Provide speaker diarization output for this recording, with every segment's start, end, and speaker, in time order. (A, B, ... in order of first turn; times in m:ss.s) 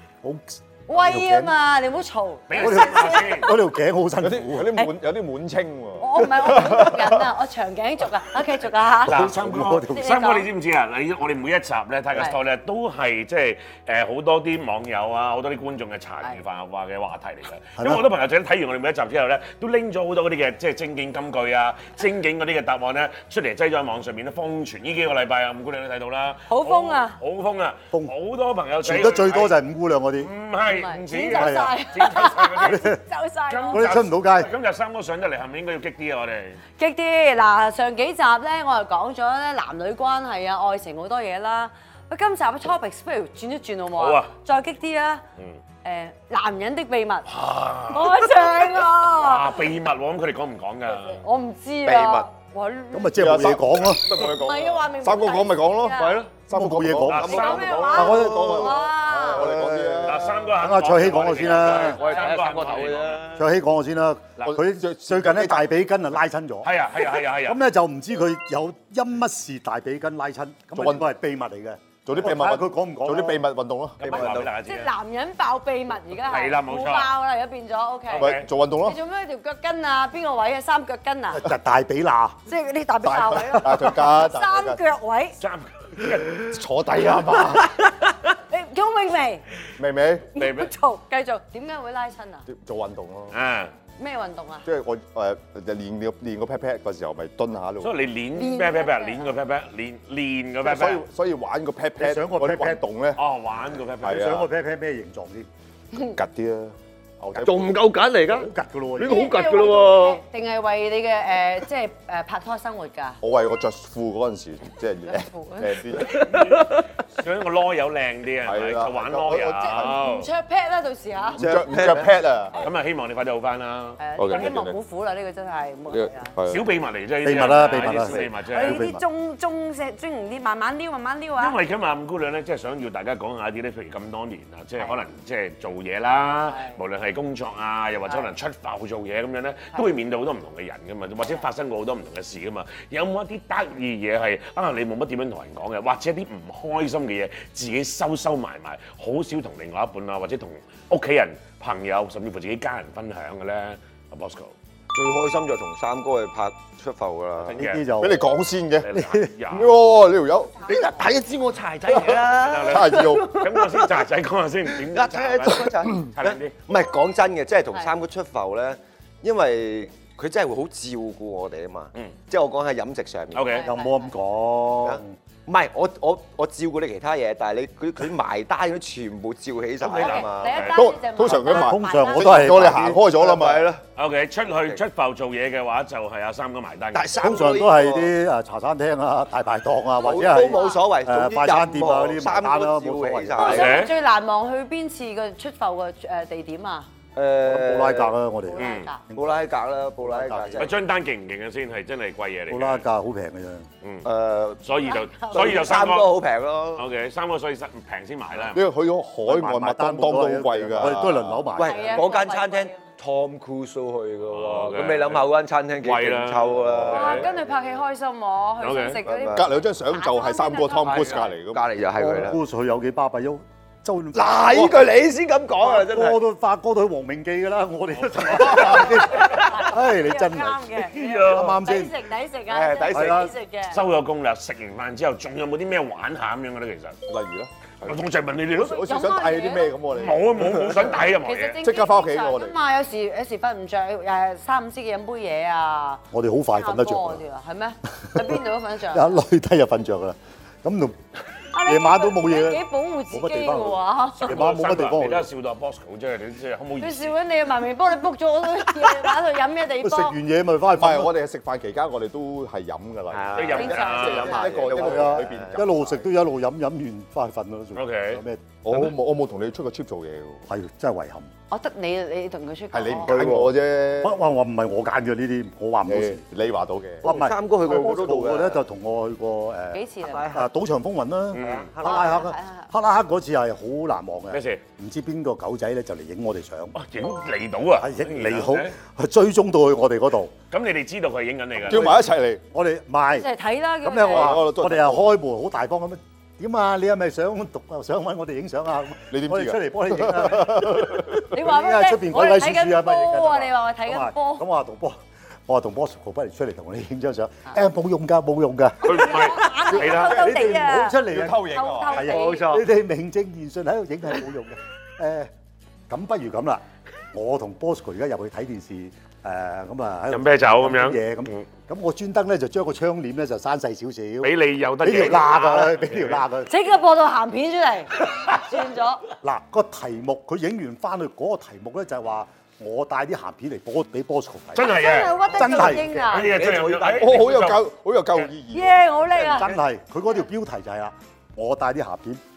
0:00.2-0:01.6 A
0:00.9-0:03.5 B
0:02.5-0:03.5 C
0:02.6-0:04.7 A
0:04.2-0:07.3 D
0:06.0-0:09.3 B
0:09.0-0:10.1 A
0:09.0-0:29.6 C
0:09.9-0:10.5 B
0:17.8-0:18.0 A
0:26.5-0:27.2 B
0:28.8-0:30.3 A
0:30.2-0:32.9 C
0:30.7-0:33.9 B
0:31.3-0:31.7 A
0:32.6-0:33.0 A
0:33.5-0:36.6 C
0:33.7-0:34.5 A
0:36.8-0:45.2 B
0:44.0-0:44.3 C
0:45.8-0:47.3 B
0:47.3-0:51.2 C
0:47.9-0:49.6 B
0:51.0-0:53.3 B
0:51.9-0:52.3 E
0:52.9-0:54.1 A
0:53.2-1:00.6 D
0:54.1-0:56.2 B
0:56.0-0:56.3 E
0:56.5-1:02.0 A
0:57.1-0:58.0 C
0:57.3-0:59.5 B
0:57.3-0:58.8 E
1:00.1-1:03.2 C
1:01.7-1:03.5 E
1:03.3-1:06.7 A
1:04.4-1:05.7 D
1:06.6-1:07.6 C
1:07.4-1:13.5 A
1:10.8-1:11.1 D
1:12.1-1:14.4 D
1:14.0-1:14.9 C
1:14.0-1:14.5 E
1:14.6-1:21.5 B
1:16.2-1:17.1 C
1:18.1-1:18.5 C
1:18.2-1:19.0 D
1:21.3-1:22.4 A
1:22.5-1:25.4 B
1:23.0-1:24.8 D
1:25.4-1:26.5 C
1:26.3-1:27.7 D
1:27.5-1:29.6 B
1:29.8-1:30.3 D
1:30.4-1:32.4 B
1:30.4-1:30.7 C
1:32.5-1:33.4 D
1:33.3-1:33.7 C
1:34.0-1:34.7 B
1:34.6-1:37.9 D
1:37.8-1:41.0 C
1:38.3-1:39.4 B
1:40.6-1:43.2 D
1:42.0-1:42.8 A
1:43.2-1:44.3 C
1:44.0-1:44.5 D
1:44.0-1:45.5 A
1:45.9-1:47.8 D
1:47.3-1:47.7 A
1:47.4-1:50.2 E
1:48.3-1:49.4 A
1:49.0-1:53.2 B
1:53.2-1:56.2 D
1:55.1-1:55.8 B
1:56.0-1:56.9 E
1:56.1-2:00.3 C
1:58.4-2:00.0 D
1:59.7-2:01.4 B
2:01.4-2:02.6 D
2:01.4-2:02.1 E
2:02.6-2:04.4 C
2:04.0-2:06.3 B
2:04.2-2:04.8 D
2:05.9-2:06.6 D
2:06.5-2:08.8 C
2:07.2-2:09.0 A
2:08.4-2:11.6 B
2:11.4-2:34.5 C
2:16.5-2:16.8 B
2:34.9-2:37.6 E
2:37.4-2:37.8 C
2:37.6-2:38.3 A
2:37.9-2:38.9 D
2:38.8-2:39.7 C
2:38.9-2:39.3 A
2:39.5-2:40.6 D
2:40.6-2:43.9 E
2:40.8-2:41.0 B
2:42.0-2:43.4 D
2:42.3-2:46.6 C
2:44.8-2:53.6 E
2:53.3-2:53.7 C
2:53.4-2:54.1 B
2:53.6-2:55.1 A
2:54.8-3:00.7 E
2:59.8-3:00.8 C
2:59.9-3:02.3 B
3:00.7-3:03.7 D
3:01.2-3:03.0 A
3:02.7-3:03.8 E
3:04.0-3:07.2 C
3:04.5-3:04.8 E
3:06.9-3:08.1 E
3:07.2-3:13.8 A
3:10.0-3:13.9 E
3:10.4-3:10.8 B
3:13.4-3:13.9 C
3:13.4-3:16.9 B
3:17.2-3:18.2 E
3:17.4-3:19.4 A
3:18.6-3:19.0 B
3:18.6-3:18.9 C
3:19.1-3:20.8 E
3:20.0-3:20.7 A
3:20.6-3:22.8 C
3:22.5-3:23.7 A
3:23.8-3:24.1 C
3:24.0-3:24.6 E
3:24.6-3:26.2 C
3:24.8-3:25.8 B
3:25.3-3:26.9 E
3:26.8-3:28.7 C
3:28.5-3:31.5 D
3:29.3-3:32.2 A
3:31.6-3:37.5 E
3:31.6-3:32.8 B
3:34.3-3:37.3 C
3:36.6-3:37.2 D
3:36.9-3:41.3 B
3:38.6-3:39.0 C
3:39.0-3:39.5 E
3:39.3-3:41.7 D
3:40.8-3:42.4 E
3:42.0-3:44.8 A
3:44.1-3:46.2 E
3:45.6-3:51.9 A
3:48.0-3:49.1 C
3:48.8-3:53.8 B
3:51.0-3:51.6 C
3:52.5-3:53.3 E
3:52.9-3:53.3 A
3:53.7-3:57.0 C
3:57.1-3:57.9 D
3:57.8-3:58.8 C
3:58.5-4:00.9 D
3:58.6-3:59.8 B
3:59.9-4:01.6 C
4:01.2-4:06.0 B
4:01.6-4:02.6 D
4:06.1-4:07.2 A
4:06.6-4:09.2 B
4:08.1-4:11.0 A
4:11.5-4:14.3 B
4:11.6-4:15.3 A
4:14.2-4:17.2 C
4:16.8-4:20.2 B
4:19.8-4:21.1 A
4:20.7-4:25.8 D
4:23.1-4:25.7 E
4:23.3-4:24.5 C
4:23.5-4:24.4 B
4:24.2-4:28.9 A
4:27.8-4:28.2 C
4:28.6-4:30.5 D
4:30.5-4:31.3 A
4:31.5-4:33.1 B
4:32.7-4:34.2 D
4:33.0-4:33.5 E
4:33.1-4:33.5 A
4:34.0-4:36.2 A
4:35.9-4:37.0 D
4:37.0-4:38.6 E
4:37.0-4:46.8 A
4:39.7-4:40.3 B
4:40.0-4:40.5 E
4:41.3-4:41.7 C
4:41.4-4:42.2 E
4:41.8-4:42.7 B
4:44.3-4:44.6 C
4:46.8-4:48.7 C
4:47.8-4:50.3 A
4:50.5-4:52.1 C
4:51.6-4:52.4 D
4:51.7-4:52.0 A
4:52.5-4:53.3 A
4:53.1-4:54.4 B
4:53.8-5:15.3 A
4:54.1-4:55.0 D
4:59.1-5:01.2 D
5:01.1-5:04.4 B
5:08.8-5:10.4 C
5:08.9-5:12.6 B
5:11.0-5:12.2 D
5:15.9-5:26.5 A
5:20.1-5:21.4 C
5:24.2-5:26.2 C
5:26.5-5:29.0 B
5:29.2-5:36.1 A
5:34.6-5:35.3 C
5:34.7-5:36.3 B
5:36.0-5:38.3 C
5:36.1-5:37.3 E
5:37.0-5:39.0 D
5:38.5-5:39.5 B
5:39.1-5:39.6 E
5:39.4-5:42.2 A